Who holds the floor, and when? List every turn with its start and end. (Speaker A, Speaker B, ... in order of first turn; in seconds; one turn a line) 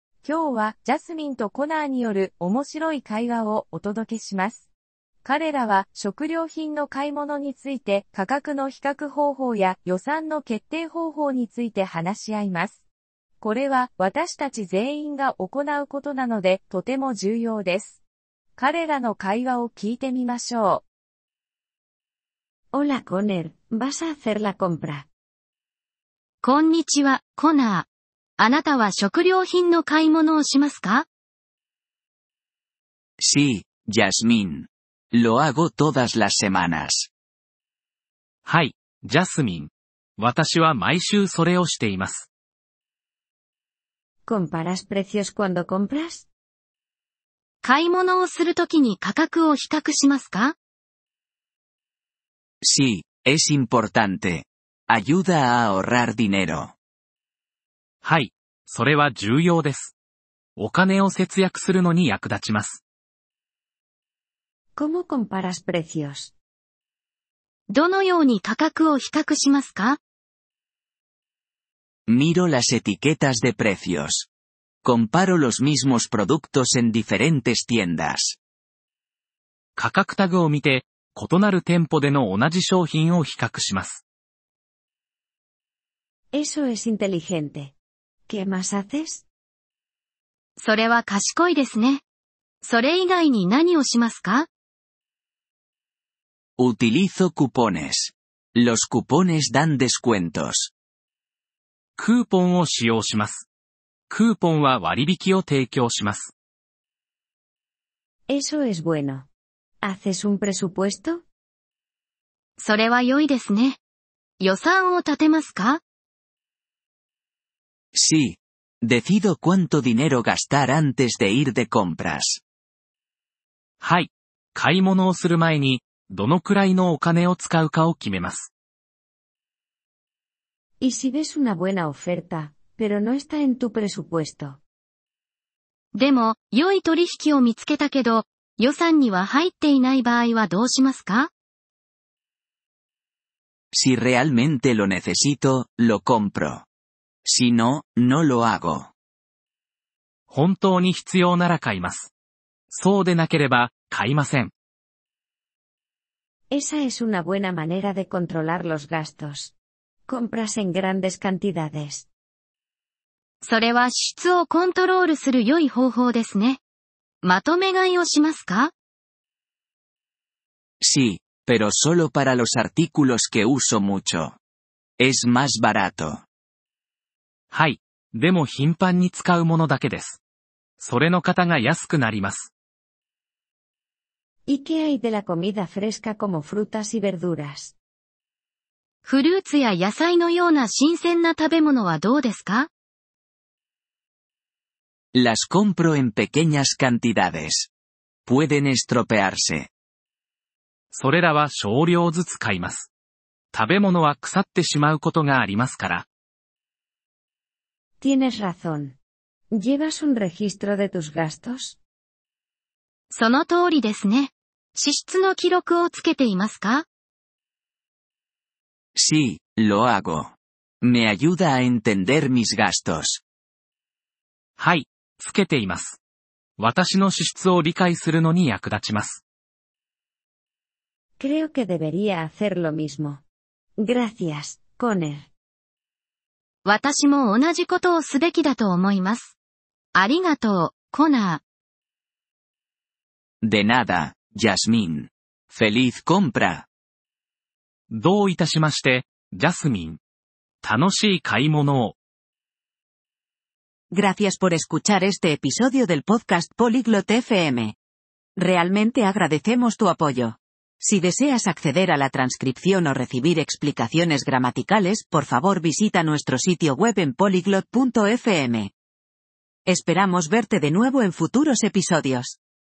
Speaker A: 0.2-4.7
Speaker A: 5.2-12.8
Speaker A: 13.4-18.0
Speaker A: 18.6-20.8
Speaker B: 22.7-25.1
Speaker C: 26.4-27.9
Speaker C: 28.4-31.1
Speaker D: 33.2-37.1
Speaker E: 38.4-42.3
Speaker B: 44.3-46.3
Speaker C: 47.6-50.6
Speaker D: 52.6-56.8
Speaker E: 58.0-59.9
Speaker E: 60.6-62.8
Speaker B: 64.8-66.3
Speaker C: 67.7-70.0
Speaker D: 72.1-74.3
Speaker D: 74.8-78.4
Speaker E: 79.8-84.0
Speaker B: 86.3-87.8
Speaker B: 88.3-89.3
Speaker C: 90.6-92.0
Speaker C: 92.6-94.5
Speaker D: 96.6-100.7
Speaker E: 102.0-103.5
Speaker E: 104.1-106.3
Speaker B: 108.3-109.3
Speaker B: 109.8-111.2
Speaker C: 112.6-113.8
Speaker C: 114.4-115.8
Speaker D: 118.0-122.4
Speaker E: 123.8-128.5
Speaker B: 130.8-134.6
Speaker C: 135.9-141.3
Speaker D: 143.7-146.7
Speaker D: 147.2-148.9
Speaker E: 150.3-152.1
Speaker E: 152.7-154.5
Speaker B: 156.5-159.5
Speaker B: 160.1-162.1
Speaker C: 163.4-166.6
Speaker C: 167.2-168.7
Speaker D: 170.8-174.4
Speaker D: 175.0-176.2
Speaker E: 177.5-180.2
Speaker E: 180.8-182.5
Speaker B: 184.5-187.8
Speaker C: 189.1-192.7
Speaker D: 195.1-197.7
Speaker D: 198.3-199.7
Speaker E: 200.9-202.9
Speaker E: 203.5-206.1
Speaker B: 208.0-209.0
Speaker B: 209.5-211.8
Speaker C: 213.1-216.8
Speaker D: 219.0-223.2
Speaker E: 224.6-226.0
Speaker E: 226.6-229.2
Speaker B: 231.2-233.2
Speaker B: 233.8-235.3
Speaker C: 236.7-239.3
Speaker C: 240.0-241.4
Speaker D: 243.4-246.7
Speaker E: 247.9-250.0
Speaker E: 250.6-252.0
Speaker F: 253.9-257.8
Speaker F: 258.4-268.7
Speaker F: 269.6-272.4